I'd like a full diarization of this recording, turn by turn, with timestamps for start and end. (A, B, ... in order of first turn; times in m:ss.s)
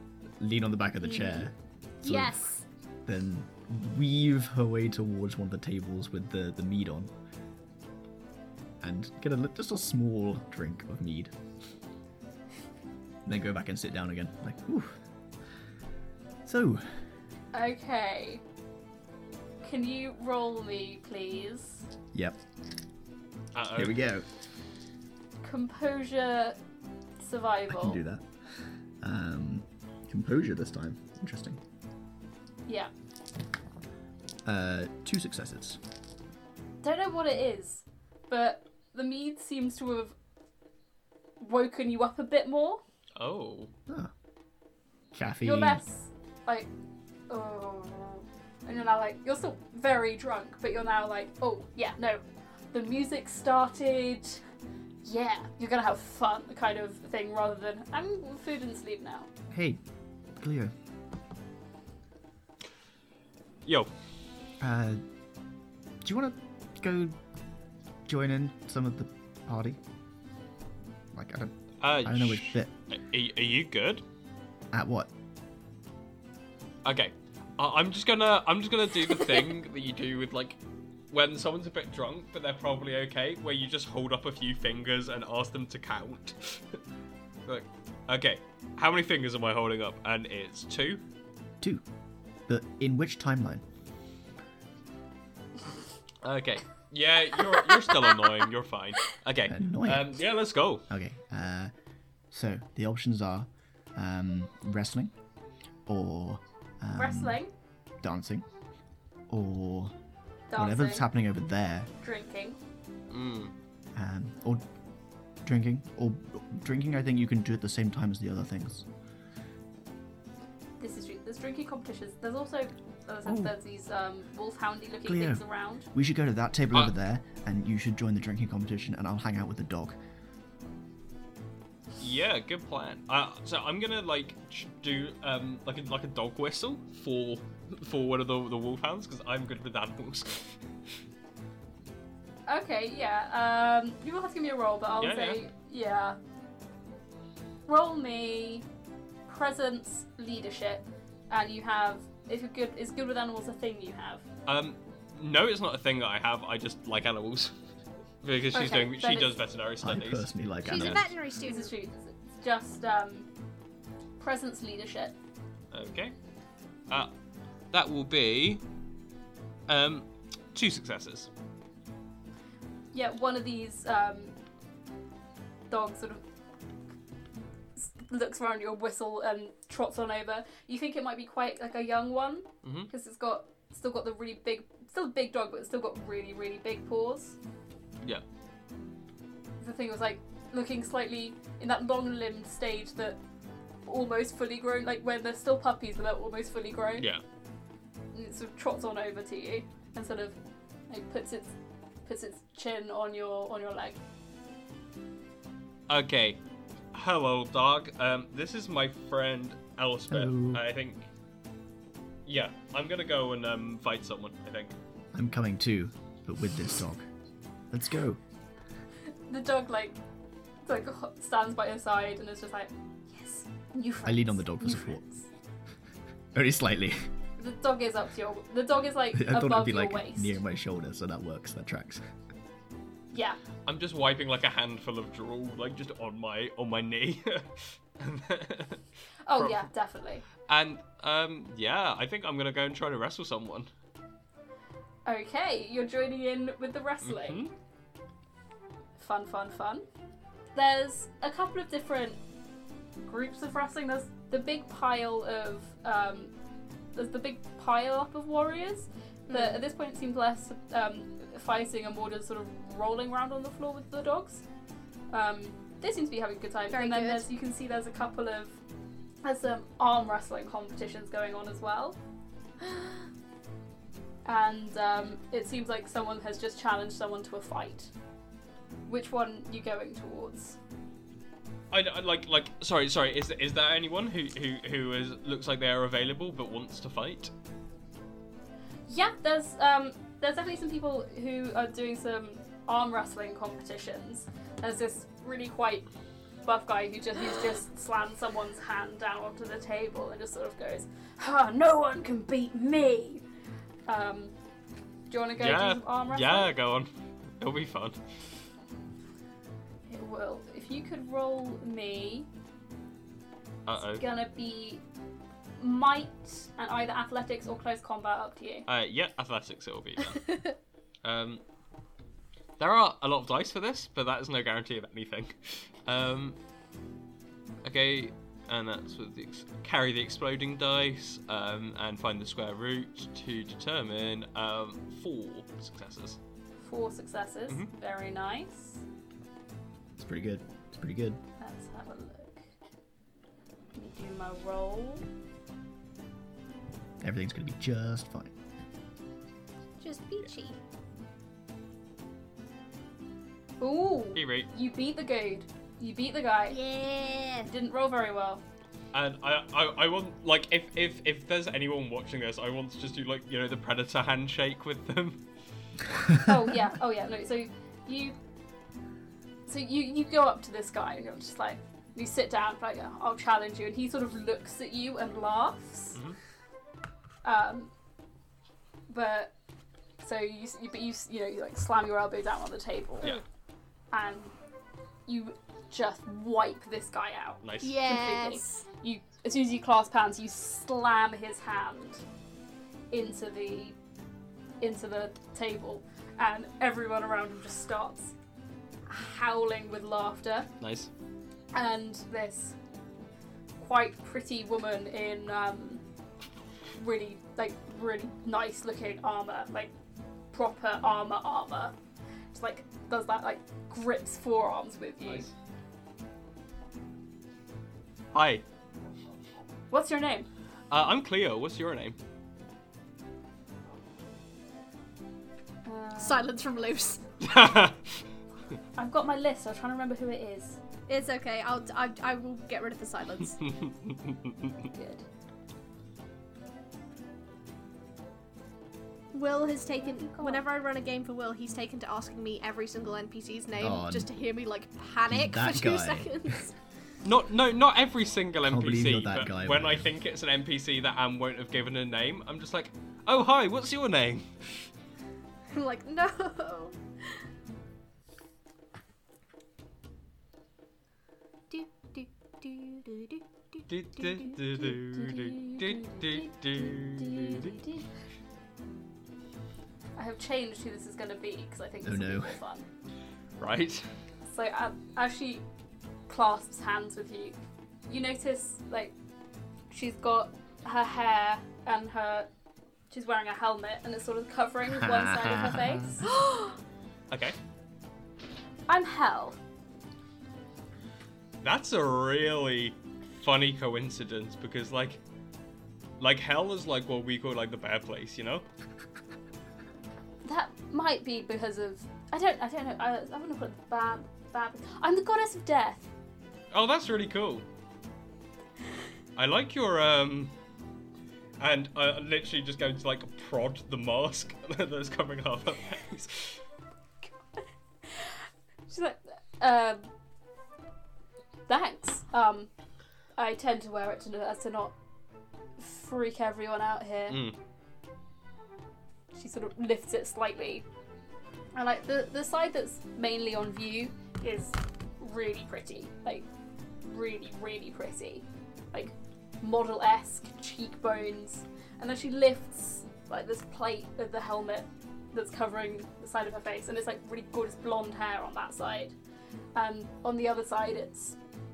0:00.4-0:07.1 A
0:01.0-0:01.5 B
0:02.0-0:02.6 B
0:08.8-0:11.4 A
0:13.2-0:15.0 A
0:16.4-0:17.2 A
0:17.5-0:18.4 B
0:19.6-0:21.8 B
0:22.1-0:22.4 A
0:23.5-0:24.0 C
0:23.7-0:24.3 A
0:25.4-0:26.6 B
0:27.2-0:28.0 B
0:27.7-0:31.6 A
0:32.7-0:32.9 B
0:34.4-0:35.8 A
0:36.8-0:40.2 B
0:41.4-0:42.8 B
0:43.2-0:43.7 C
0:45.1-0:45.8 A
0:45.4-0:46.7 B
0:47.3-0:54.4 B
0:55.0-0:59.3 B
0:59.5-1:00.7 A
1:03.6-1:03.9 C
1:04.6-1:05.0 A
1:06.0-1:07.2 A
1:08.0-1:09.8 A
1:11.1-1:12.7 A
1:11.8-1:14.0 C
1:14.7-1:15.1 A
1:16.8-1:20.6 C
1:21.1-1:26.8 C
1:27.4-1:31.0 C
1:31.6-1:31.9 A
1:32.4-1:33.6 A
1:36.2-1:40.8 C
1:39.5-1:41.7 A
1:42.3-1:45.2 A
1:45.8-1:48.5 A
1:46.9-1:47.5 B
1:49.3-1:50.0 A
1:50.5-1:51.1 B
1:50.5-1:51.9 A
1:52.0-1:52.6 B
1:53.1-1:53.5 C
1:53.9-1:54.7 A
1:55.3-1:58.9 A
2:00.8-2:05.9 B
2:03.2-2:03.5 A
2:05.0-2:10.0 A
2:12.0-2:20.6 C
2:22.5-2:26.2 B
2:25.0-2:25.4 C
2:27.6-2:28.6 B
2:29.3-2:34.2 B
2:34.4-2:37.6 C
2:38.2-2:41.0 C
2:38.5-2:39.4 B
2:39.8-2:41.1 A
2:40.6-2:41.7 D
2:41.4-2:43.3 B
2:44.2-2:45.2 B
2:45.7-2:46.1 C
2:46.9-2:47.1 C
2:47.7-2:48.6 C
2:49.7-2:51.3 C
2:52.9-2:54.4 B
2:55.7-2:56.2 B
2:57.8-3:07.4 B
3:02.6-3:02.9 C
3:09.6-3:13.2 B
3:13.8-3:17.1 B
3:18.1-3:20.4 B
3:20.9-3:24.0 B
3:25.9-3:26.4 C
3:26.9-3:31.1 C
3:30.1-3:30.6 A
3:32.2-3:34.8 C
3:35.1-3:37.1 A
3:37.7-3:38.2 A
3:39.3-3:40.0 B
3:40.6-3:45.3 B
3:44.0-3:45.0 A
3:46.3-3:47.1 A
3:47.4-3:50.4 B
3:49.1-3:52.1 A
3:53.1-3:53.4 B
3:53.6-3:58.9 C
3:59.2-4:00.2 B
4:00.4-4:03.7 C
4:05.0-4:07.4 B
4:07.0-4:07.5 C
4:09.0-4:09.8 B
4:10.5-4:12.2 B
4:13.0-4:16.3 B
4:16.9-4:24.4 B
4:19.3-4:19.6 D
4:25.1-4:28.6 B
4:26.7-4:27.3 D
4:29.2-4:32.0 B
4:34.2-4:37.9 B
4:38.8-4:40.6 B
4:41.7-4:47.3 C
4:48.9-4:55.9 B
4:56.4-5:03.2 B
5:03.9-5:04.4 B
5:05.1-5:06.5 B
5:05.4-5:08.0 C
5:09.9-5:12.3 B
5:13.6-5:14.0 C
5:13.8-5:14.8 B
5:15.6-5:18.7 B
5:18.7-5:21.4 C
5:22.6-5:26.4 C
5:27.6-5:36.2 C
5:36.6-5:38.8 B
5:40.0-5:41.2 A
5:41.4-5:42.5 B
5:43.7-5:45.1 B
5:47.0-5:48.3 A
5:49.8-5:50.6 D
5:53.6-5:56.6 B
5:54.1-5:54.5 C
5:56.5-5:57.5 D
5:57.4-5:58.4 B
5:58.9-6:05.2 C
6:06.2-6:08.2 B
6:09.5-6:16.0 B
6:17.2-6:17.7 B
6:18.9-6:19.3 B
6:20.0-6:23.2 B
6:23.9-6:24.4 B
6:25.0-6:32.0 B
6:27.4-6:27.8 C
6:27.6-6:28.6 D
6:32.9-6:33.8 B
6:34.6-6:38.1 B
6:38.9-6:40.5 B
6:40.6-6:40.9 C
6:41.5-6:42.6 B
6:43.6-6:45.8 B
6:46.8-6:49.7 B
6:50.3-6:51.7 B
6:52.3-6:55.3 B
6:55.0-6:55.3 C
6:58.1-6:58.4 C
6:59.7-7:00.3 B
7:00.7-7:02.0 C
7:05.6-7:06.3 B
7:06.0-7:07.0 D
7:07.2-7:08.0 C
7:08.8-7:10.6 B
7:10.9-7:13.5 D
7:14.6-7:15.0 B
7:19.1-7:26.6 D
7:19.8-7:20.4 B
7:23.6-7:24.1 A
7:25.1-7:26.3 A
7:27.0-7:34.6 C
7:28.4-7:29.9 A
7:35.5-7:37.2 D
7:41.5-7:44.4 D
7:43.7-7:47.5 C
7:44.9-7:47.9 B
7:50.0-7:52.6 B
7:51.8-7:52.4 A
7:53.4-7:54.0 C
7:54.2-7:55.4 B
7:56.1-7:57.4 B
7:57.9-7:58.9 B
7:59.7-8:02.3 B
8:02.9-8:06.6 B
8:04.7-8:06.0 A
8:07.1-8:07.4 C
8:08.7-8:09.4 B
8:11.4-8:15.0 C
8:16.0-8:18.4 C
8:20.2-8:25.9 B
8:26.5-8:27.4 C
8:29.2-8:30.3 C
8:31.4-8:36.4 C
8:37.4-8:38.1 B
8:38.7-8:39.9 B
8:41.5-8:42.5 B
8:43.1-8:44.8 B
8:45.6-8:47.2 B
8:47.1-8:47.4 C
8:49.1-8:50.6 B
8:51.5-8:56.3 B
8:56.8-9:09.0 B
9:09.5-9:11.2 B